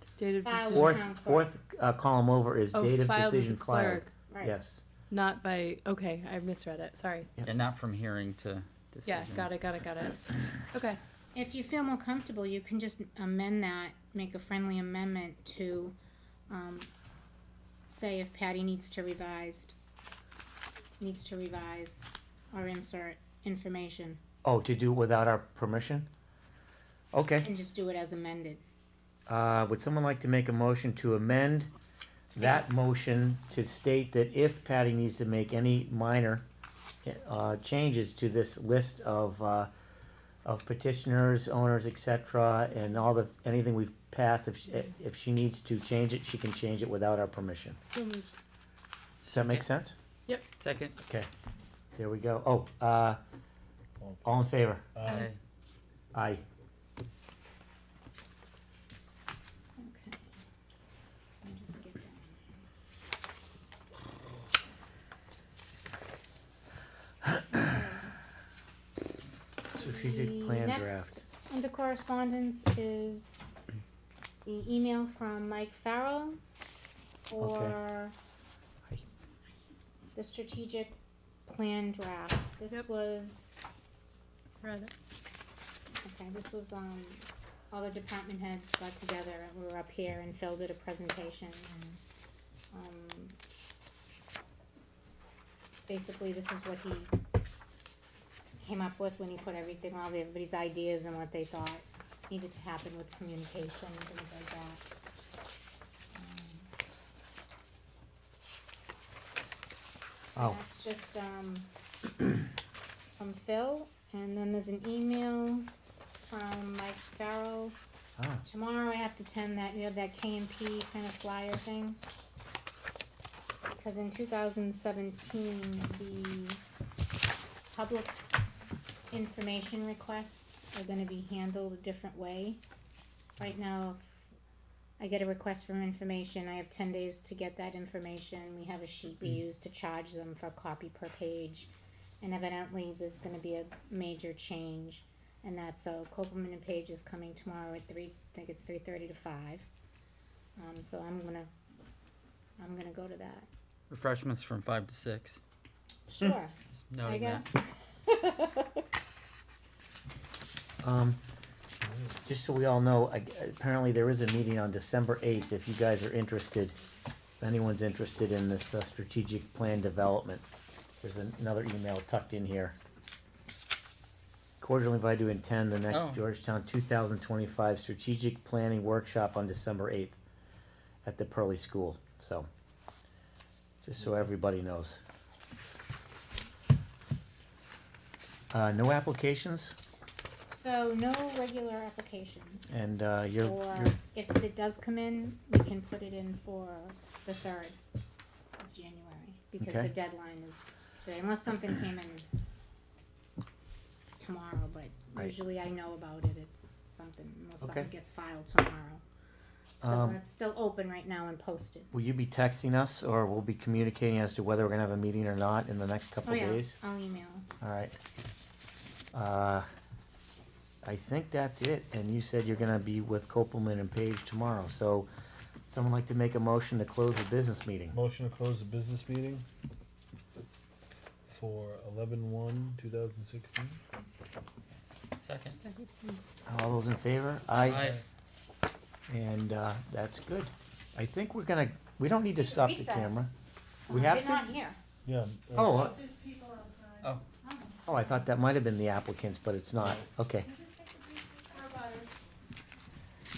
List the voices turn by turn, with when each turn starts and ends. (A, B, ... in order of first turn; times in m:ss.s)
0:00.2-0:00.9 A
0:00.4-0:01.5 B
0:00.7-0:04.8 C
0:02.7-0:04.1 A
0:04.3-0:04.5 B
0:05.1-0:07.3 A
0:07.4-0:09.5 D
0:09.0-0:11.0 A
0:11.3-0:15.9 B
0:16.5-0:16.9 B
0:17.9-0:19.7 B
0:21.0-0:24.2 B
0:24.4-0:26.1 C
0:27.1-0:27.5 C
0:27.4-0:28.6 B
0:29.3-0:31.7 C
0:32.3-0:36.4 C
0:37.0-0:39.7 C
0:40.4-0:47.8 C
0:47.8-0:48.4 A
0:49.2-0:49.7 D
0:49.3-0:50.0 C
0:50.6-0:51.0 D
0:52.0-0:53.2 C
0:54.0-0:55.3 E
0:54.2-0:54.9 C
0:55.0-0:55.4 D
0:56.1-0:56.4 C
0:59.8-1:00.2 B
1:01.4-1:02.4 B
1:07.5-1:08.1 B
1:09.7-1:11.1 C
1:09.7-1:13.6 B
1:14.4-1:16.4 B
1:17.3-1:18.1 B
1:17.4-1:17.8 C
1:20.1-1:21.0 B
1:21.5-1:23.6 B
1:24.6-1:24.9 A
1:26.0-1:32.0 B
1:32.7-1:33.4 B
1:35.9-1:37.1 B
1:38.6-1:44.8 B
1:46.1-1:46.7 B
1:50.4-1:51.7 B
1:53.2-1:55.7 B
1:56.3-1:57.8 B
1:58.2-1:58.4 C
1:58.4-2:02.0 B
2:03.7-2:06.6 B
2:07.7-2:08.2 B
2:09.1-2:12.6 B
2:13.4-2:14.2 B
2:15.0-2:21.7 B
2:22.2-2:29.7 B
2:30.6-2:31.5 B
2:32.6-2:33.5 B
2:33.9-2:35.4 D
2:36.1-2:38.6 B
2:36.9-2:37.5 D
2:40.8-2:41.2 C
2:41.8-2:42.2 E
2:42.2-2:46.8 C
2:47.4-2:50.4 C
2:51.0-2:52.8 C
2:54.6-3:00.2 C
2:55.9-2:56.2 D
3:01.0-3:02.5 C
3:03.8-3:05.0 C
3:08.5-3:09.7 C
3:10.5-3:12.8 B
3:12.7-3:14.0 C
3:13.4-3:17.8 B
3:18.6-3:22.2 B
3:19.6-3:19.9 C
3:24.2-3:29.0 B
3:27.6-3:27.9 C
3:29.8-3:31.9 B
3:29.8-3:30.2 C
3:31.9-3:36.7 C
3:36.2-3:37.4 B
3:37.6-3:38.0 C
3:39.1-3:39.7 C
3:40.8-3:45.1 C
3:45.7-3:48.0 C
3:47.9-3:49.4 E
3:51.2-3:53.8 E
3:55.1-3:55.6 D
3:55.6-3:56.2 A
3:56.5-3:57.9 C
3:57.6-3:58.0 D
3:59.1-4:03.4 C
4:02.4-4:04.8 B
4:03.9-4:04.5 C
4:05.0-4:05.9 E
4:05.5-4:06.0 C
4:05.7-4:07.1 A
4:07.4-4:07.8 B
4:07.8-4:10.5 C
4:11.4-4:12.1 A